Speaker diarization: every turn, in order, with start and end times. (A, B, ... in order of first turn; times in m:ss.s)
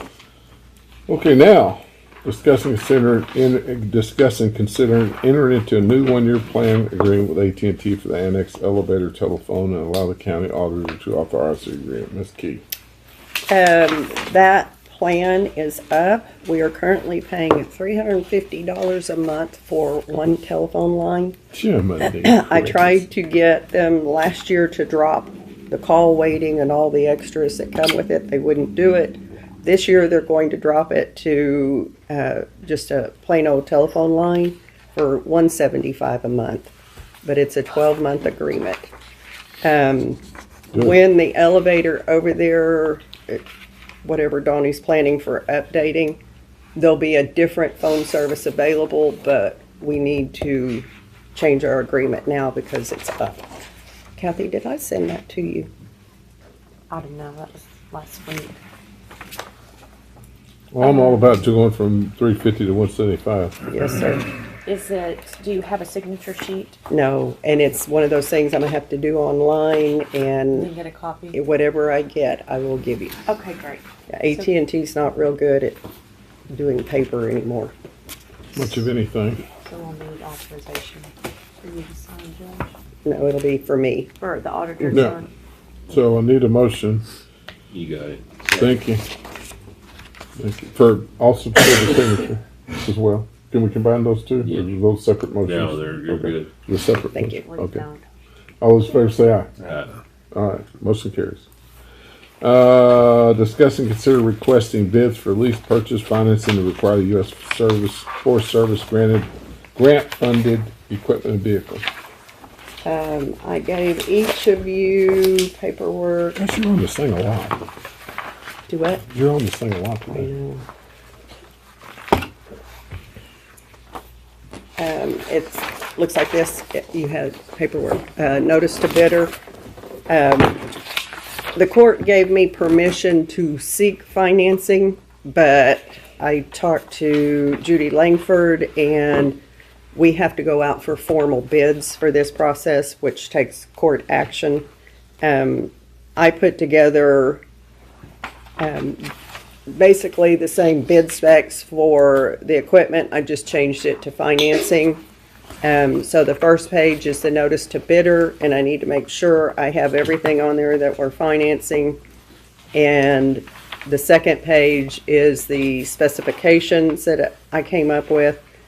0:01.1-0:12.6 A
0:13.5-0:21.4 B
0:21.5-0:23.0 A
0:22.0-0:36.7 B
0:37.2-0:38.9 B
0:39.6-0:40.2 B
0:40.7-0:43.4 B
0:44.0-0:46.2 B
0:46.8-0:53.4 B
0:54.2-0:55.7 B
0:56.9-0:58.6 C
1:00.7-1:03.6 A
1:00.8-1:01.4 C
1:03.7-1:04.2 B
1:04.6-1:06.8 C
1:06.9-1:10.7 B
1:10.5-1:11.4 C
1:11.3-1:13.2 B
1:13.3-1:14.5 C
1:14.1-1:15.8 B
1:16.5-1:17.7 B
1:18.5-1:19.4 A
1:19.6-1:21.1 C
1:21.6-1:22.7 C
1:23.0-1:24.1 B
1:24.2-1:25.3 C
1:24.8-1:25.1 B
1:25.9-1:27.0 A
1:27.7-1:28.7 D
1:28.6-1:29.0 A
1:30.4-1:37.8 A
1:34.4-1:34.7 D
1:35.4-1:36.5 D
1:37.2-1:38.0 C
1:38.6-1:39.5 A
1:39.6-1:40.0 D
1:40.3-1:41.5 A
1:42.4-1:51.8 A
1:52.8-1:56.4 B
1:56.4-1:57.6 A
1:58.7-1:59.0 B
1:59.1-2:00.3 A
2:00.1-2:00.6 B
2:04.8-2:09.3 B
2:10.1-2:10.7 B
2:11.5-2:19.4 B
2:19.9-2:24.7 B
2:25.2-2:27.4 B
2:28.6-2:29.1 B
2:29.7-2:35.0 B
2:35.6-2:42.0 B
2:42.7-2:48.4 B